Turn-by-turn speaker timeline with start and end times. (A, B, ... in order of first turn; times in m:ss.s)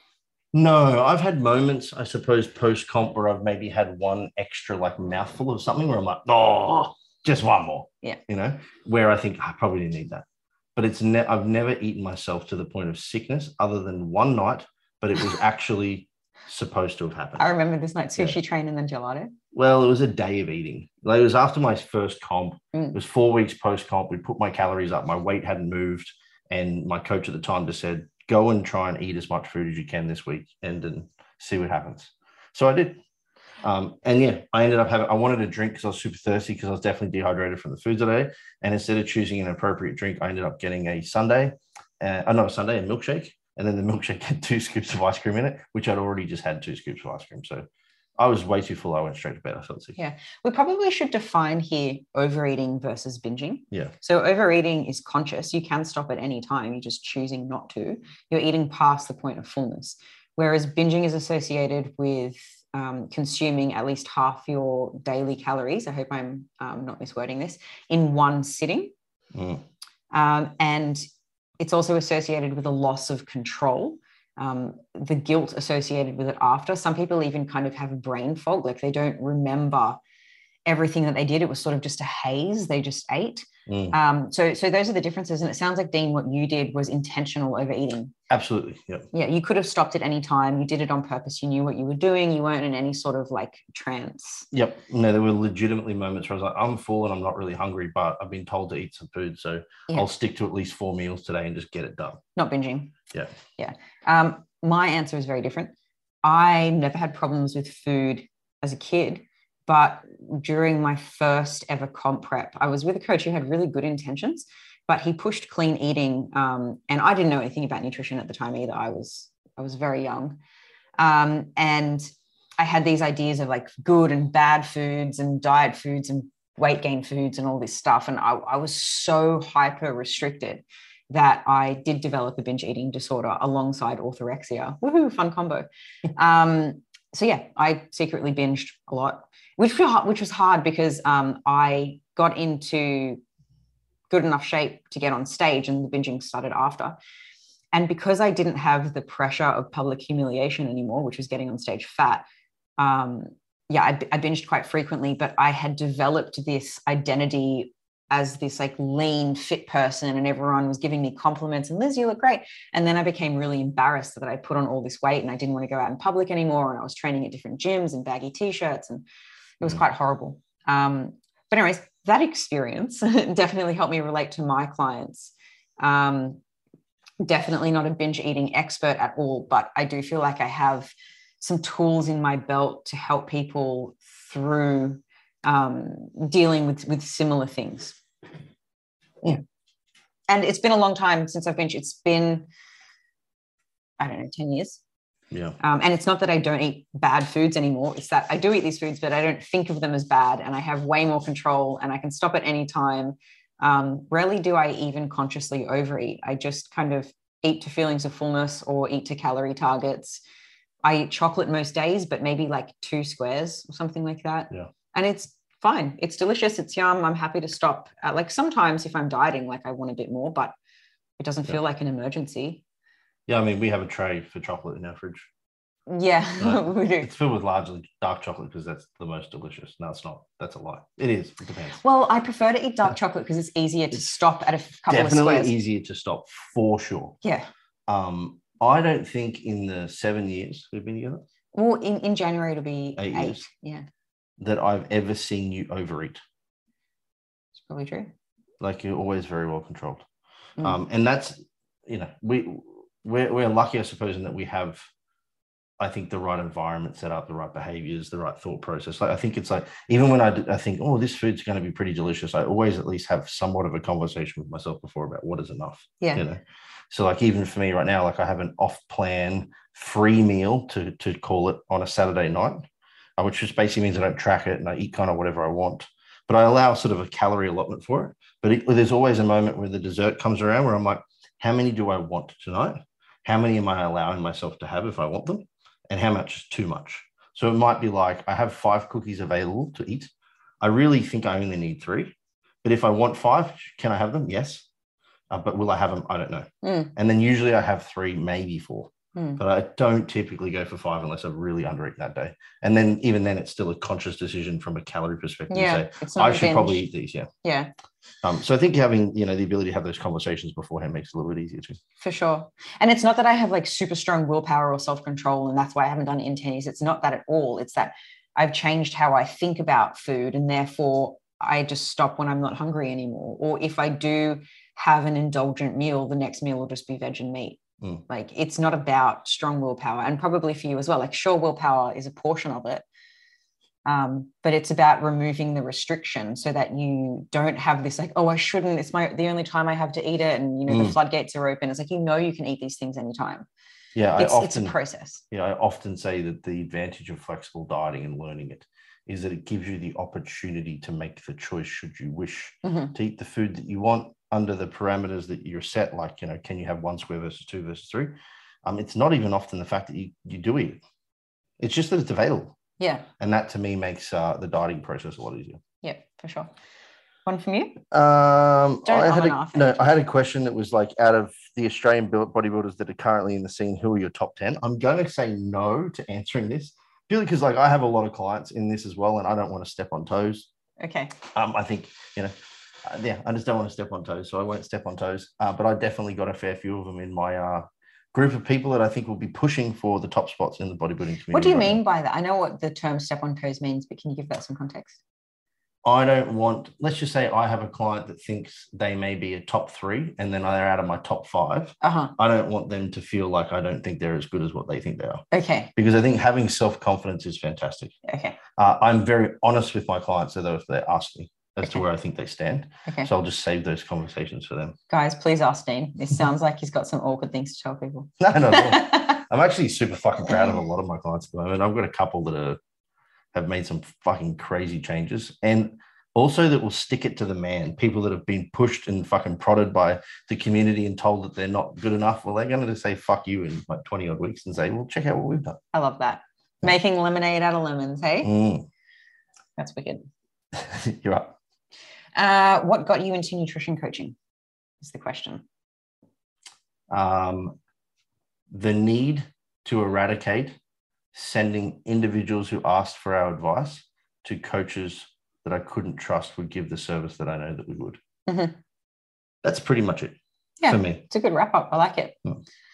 0:00.5-0:10.2 A
0:10.8-0:17.5 A
0:17.4-0:19.3 B
0:19.5-0:33.0 A
0:33.6-0:47.7 A
0:48.2-0:50.0 A
0:50.0-1:08.9 B
1:09.3-1:09.6 A
1:10.1-1:11.0 B
1:11.6-1:20.0 B
1:20.6-1:28.1 B
1:23.7-1:24.0 A
1:28.3-1:29.1 A
1:29.1-1:34.5 B
1:34.5-1:42.2 A
1:42.4-1:42.9 B
1:43.6-2:00.4 B
2:01.0-2:02.1 B
2:02.6-2:23.2 B
2:24.1-2:27.0 B
2:27.7-2:32.2 B
2:32.8-2:49.0 B
2:49.6-2:56.4 B
2:57.2-3:08.0 B
3:10.3-3:12.4 B
3:14.0-3:14.8 B
3:15.3-3:15.6 A
3:15.6-3:30.2 B
3:30.8-3:40.5 B
3:41.2-3:42.6 B
3:43.3-3:45.3 A
3:45.9-3:47.1 B
3:46.4-3:51.8 A
3:51.8-3:55.5 B
3:54.9-3:57.2 A
3:57.2-3:57.5 B
3:57.9-4:01.2 A
4:01.5-4:03.8 B
4:03.0-4:03.4 A
4:04.4-4:06.2 A
4:07.5-4:08.1 B
4:08.6-4:10.0 A
4:10.6-4:14.8 A
4:15.8-4:32.7 A
4:33.2-4:50.1 A
4:50.6-4:54.6 A
4:55.3-5:07.3 A
4:56.6-4:56.9 B
4:59.1-4:59.4 B
5:05.5-5:06.8 B
5:07.4-5:07.7 B
5:08.2-5:11.8 A
5:12.0-5:32.8 B
5:33.8-5:43.5 B
5:40.7-5:40.9 A
5:43.9-5:44.7 A
5:44.2-5:45.2 B
5:45.3-6:00.8 A
5:52.6-5:52.9 B
6:01.6-6:02.6 A
6:02.8-6:03.0 B
6:03.2-6:05.6 A
6:05.8-6:06.5 B
6:07.2-6:07.8 B
6:07.9-6:20.5 A
6:08.8-6:10.0 B
6:20.8-6:21.1 B
6:21.3-6:22.3 A
6:22.8-6:31.8 A
6:31.3-6:35.0 B
6:35.8-6:45.2 A
6:41.8-6:42.1 B
6:45.3-6:45.7 B
6:45.8-6:47.9 A
6:48.0-6:48.4 B
6:48.6-6:54.8 A
6:54.9-6:59.2 B
6:58.2-7:02.6 A
7:03.3-7:15.6 A
7:15.7-7:18.3 B
7:18.2-7:18.7 A
7:19.6-7:20.1 B
7:20.5-7:21.3 A
7:22.2-7:24.2 B
7:24.8-7:25.4 B
7:26.9-7:27.6 A
7:28.5-7:30.6 A
7:31.1-7:38.0 A
7:38.2-7:38.6 B
7:39.4-7:40.2 A
7:40.6-7:42.2 B
7:40.7-7:41.0 A